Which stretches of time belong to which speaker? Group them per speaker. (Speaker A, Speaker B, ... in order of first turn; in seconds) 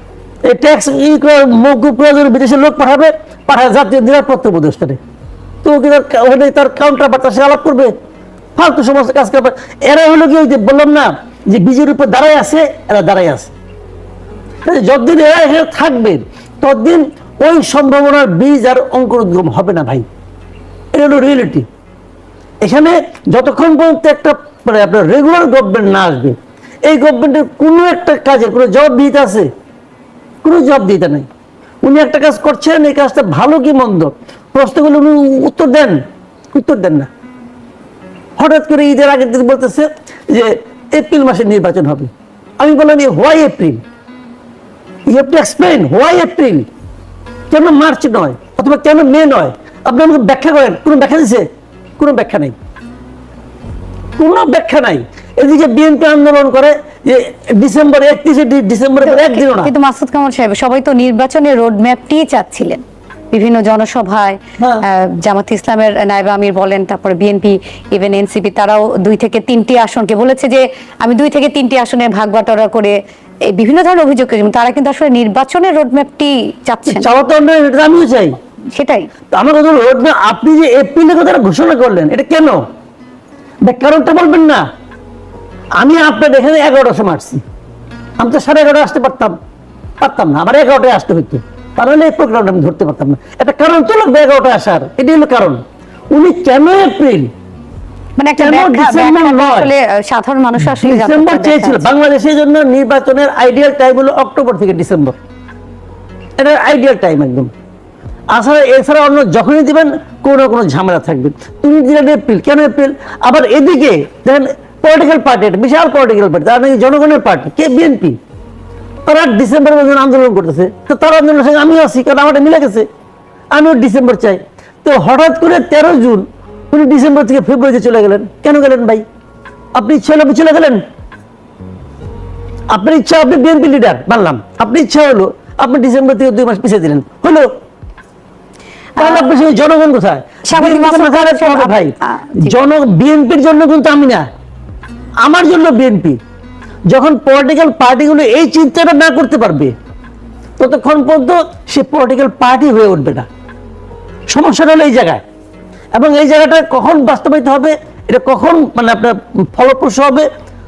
Speaker A: 0.4-5.0, 5.6-7.9, 8.6-13.5, 14.6-20.0, 20.9-21.7, 22.6-29.5, 30.4-31.2, 31.8-36.0, 36.5-37.1, 38.4-43.8, 45.1-46.7, 47.5-51.4, 52.0-52.5, 54.2-59.7, 64.6-64.8, 76.9-78.3, 79.3-82.6, 83.6-84.6, 85.8-87.4, 88.2-89.3, 90.0-95.6, 96.1-97.3, 98.4-99.7, 100.6-105.2, 106.4-107.5, 108.3-118.2, 119.0-122.9, 123.5-129.0, 129.7-130.8, 132.7-137.5, 139.0-144.3, 145.2-146.2, 146.9-149.7, 150.6-153.3, 154.3-155.2, 155.9-160.3
Speaker B: 59.0-77.1, 78.7-79.1, 98.2-101.9, 139.0-139.3, 140.5-142.5